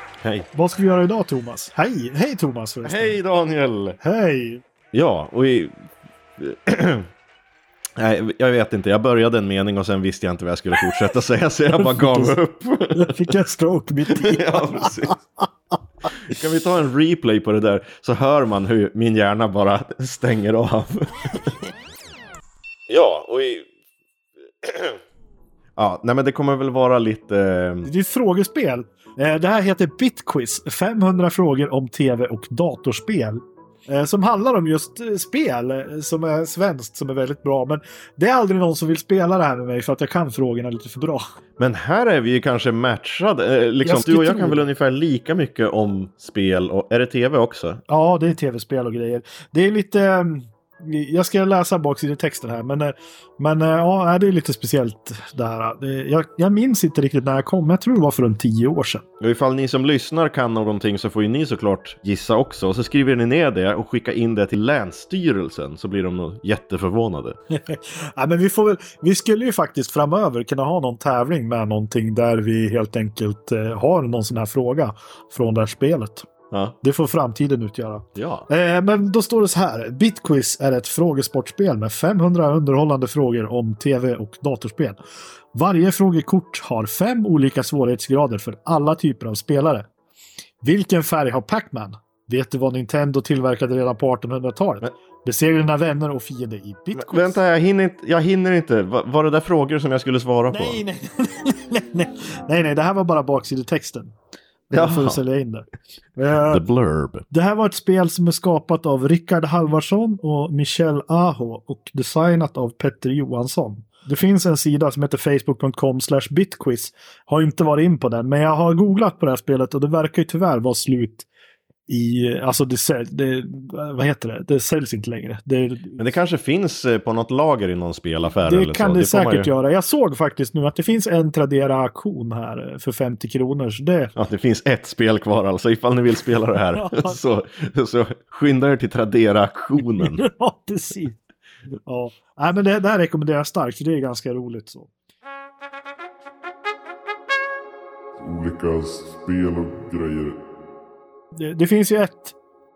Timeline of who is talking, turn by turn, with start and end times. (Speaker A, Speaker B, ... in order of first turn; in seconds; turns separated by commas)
Speaker A: 0.2-0.5, Speaker B: 0.5-3.2, Speaker A: 2.8-4.0, Speaker B: 4.0-4.6, Speaker A: 4.9-5.7, Speaker A: 6.4-7.1, Speaker A: 8.0-13.2, Speaker B: 11.8-12.3, Speaker B: 12.9-15.2, Speaker A: 14.1-15.2, Speaker A: 16.2-21.6, Speaker A: 22.9-23.7, Speaker A: 24.6-25.0, Speaker A: 25.8-27.9, Speaker B: 27.8-41.2, Speaker A: 41.6-47.8, Speaker B: 43.8-44.6, Speaker B: 47.9-59.0, Speaker A: 59.2-67.4, Speaker B: 67.5-76.3, Speaker A: 76.5-76.8, Speaker B: 76.8-85.0, Speaker A: 78.2-78.5, Speaker B: 85.5-89.9, Speaker B: 90.6-97.4, Speaker A: 96.9-100.8, Speaker B: 100.5-104.2, Speaker B: 104.7-106.6, Speaker A: 104.7-105.2, Speaker A: 106.5-107.2, Speaker B: 107.3-121.3, Speaker B: 121.9-126.0, Speaker A: 126.0-129.5, Speaker B: 128.4-134.1, Speaker A: 134.2-140.2, Speaker B: 136.7-137.2, Speaker B: 140.0-141.2, Speaker B: 141.9-144.9, Speaker C: 148.2-150.4, Speaker B: 151.3-152.3